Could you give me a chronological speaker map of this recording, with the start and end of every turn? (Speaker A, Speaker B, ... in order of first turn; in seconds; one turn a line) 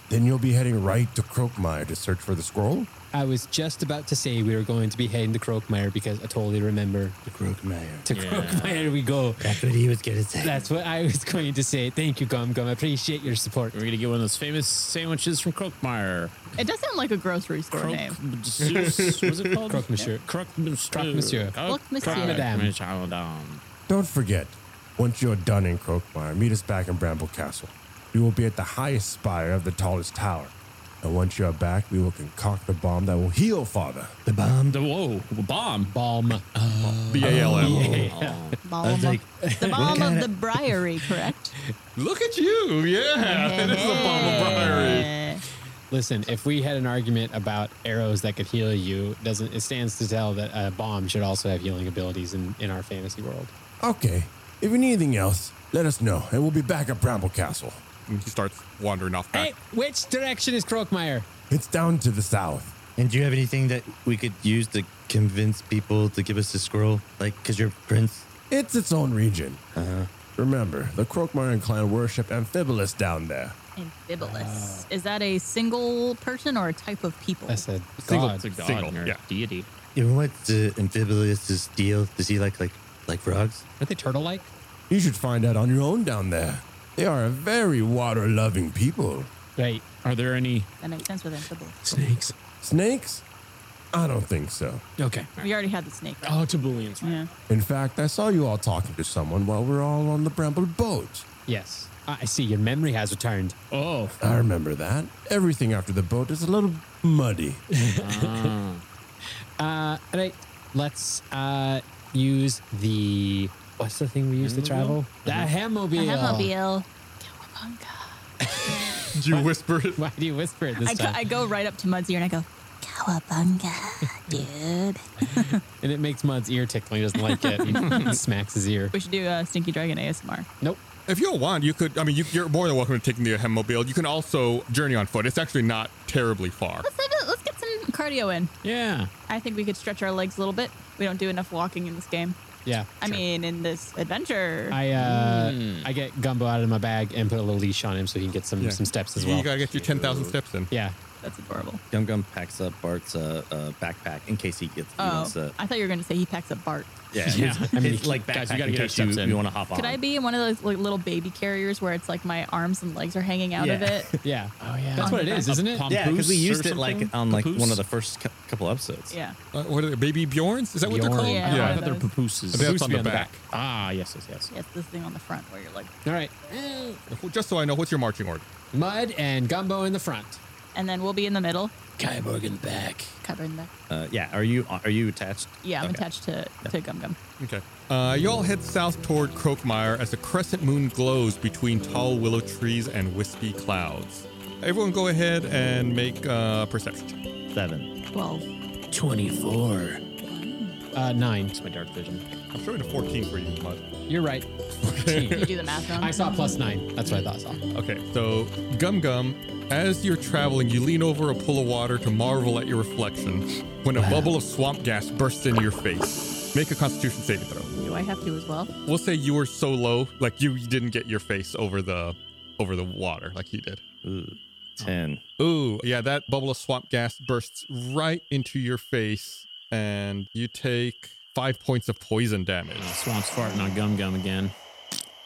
Speaker A: 0.1-2.9
Speaker B: 3.1-7.2
Speaker C: 7.2-8.1
Speaker B: 8.1-9.6
Speaker D: 8.1-8.9
Speaker C: 9.4-10.7
Speaker B: 10.4-13.8
Speaker D: 13.7-16.5
Speaker E: 16.6-18.2
Speaker D: 17.7-23.6
Speaker F: 18.6-19.6
Speaker B: 19.7-20.3
Speaker B: 20.9-22.7
Speaker E: 21.6-22.5
Speaker A: 23.9-34.1
Speaker C: 34.3-34.8
Speaker D: 34.7-35.9
Speaker B: 35.9-36.5
Speaker D: 36.5-38.6
Speaker F: 37.1-37.9
Speaker C: 37.2-38.2
Speaker B: 37.2-38.5
Speaker E: 38.6-41.5
Speaker C: 38.8-40.3
Speaker B: 39.4-40.1
Speaker F: 42.0-45.1
Speaker E: 43.2-45.4
Speaker B: 43.9-44.6
Speaker B: 45.9-53.5
Speaker A: 53.8-57.8
Speaker F: 58.1-59.5
Speaker B: 59.3-61.3
Speaker A: 61.5-62.7
Speaker C: 63.0-68.3
Speaker A: 68.5-69.6
Speaker C: 69.8-70.1
Speaker A: 70.3-73.6
Speaker E: 73.8-77.6
Speaker B: 74.2-74.9
Speaker B: 77.5-78.4
Speaker D: 78.1-79.7
Speaker F: 78.2-79.2
Speaker C: 80.0-83.7
Speaker B: 83.8-84.5
Speaker A: 84.9-89.3
Speaker B: 89.6-89.8
Speaker D: 90.0-90.7
Speaker E: 90.8-91.8
Speaker D: 91.8-92.3
Speaker A: 92.6-93.2
Speaker A: 93.9-94.8
Speaker D: 95.0-95.5
Speaker E: 95.4-96.4
Speaker D: 96.2-97.2
Speaker E: 97.0-97.3
Speaker A: 97.5-101.3
Speaker B: 101.5-103.6
Speaker D: 103.7-104.2
Speaker A: 104.2-107.6
Speaker B: 107.8-108.5
Speaker D: 108.0-108.8
Speaker B: 109.6-116.5
Speaker D: 114.4-115.5
Speaker E: 116.0-118.2
Speaker B: 118.4-121.2
Speaker F: 119.1-120.0
Speaker E: 120.8-125.6
Speaker B: 125.4-128.9
Speaker E: 127.2-128.2
Speaker D: 127.7-128.2
Speaker E: 128.9-130.5
Speaker F: 131.1-136.9
Speaker E: 136.8-138.5
Speaker D: 138.6-139.1
Speaker E: 139.3-142.4
Speaker B: 142.7-143.2
Speaker E: 143.0-144.8
Speaker B: 144.7-149.7
Speaker D: 144.9-145.9
Speaker F: 148.6-150.7
Speaker C: 149.7-150.3
Speaker B: 150.7-151.0
Speaker E: 151.2-151.8
Speaker C: 151.9-155.6
Speaker E: 155.0-157.1
Speaker C: 157.1-160.0
Speaker D: 157.2-159.4
Speaker B: 157.3-158.1
Speaker E: 159.7-164.1
Speaker C: 163.6-164.1
Speaker B: 164.2-165.9
Speaker D: 164.6-167.8
Speaker E: 165.0-165.5
Speaker C: 165.9-169.2
Speaker E: 169.1-169.4
Speaker F: 169.5-171.8
Speaker B: 170.8-171.8
Speaker E: 171.2-172.1
Speaker D: 171.5-174.5
Speaker F: 172.5-173.4
Speaker B: 172.5-173.3
Speaker E: 174.5-175.9
Speaker B: 176.1-176.4
Speaker D: 176.5-177.0
Speaker F: 177.1-178.5
Speaker B: 178.7-180.4
Speaker E: 180.8-181.8
Speaker D: 182.0-183.2
Speaker E: 183.2-183.7
Speaker C: 183.9-186.1
Speaker E: 185.6-187.2
Speaker F: 187.4-197.2
Speaker C: 197.5-197.9
Speaker E: 198.1-198.5
Speaker D: 198.9-200.0
Speaker E: 200.1-200.8
Speaker B: 200.9-201.6
Speaker D: 201.6-202.2
Speaker F: 202.5-203.8
Speaker B: 204.1-207.6
Speaker F: 204.9-205.5
Speaker E: 205.3-206.6
Speaker F: 207.7-217.7
Speaker B: 214.0-214.3
Speaker E: 217.7-218.7
Speaker F: 218.9-223.8
Speaker C: 224.0-225.2
Speaker F: 225.4-232.9
Speaker D: 232.8-234.5
Speaker E: 233.4-233.7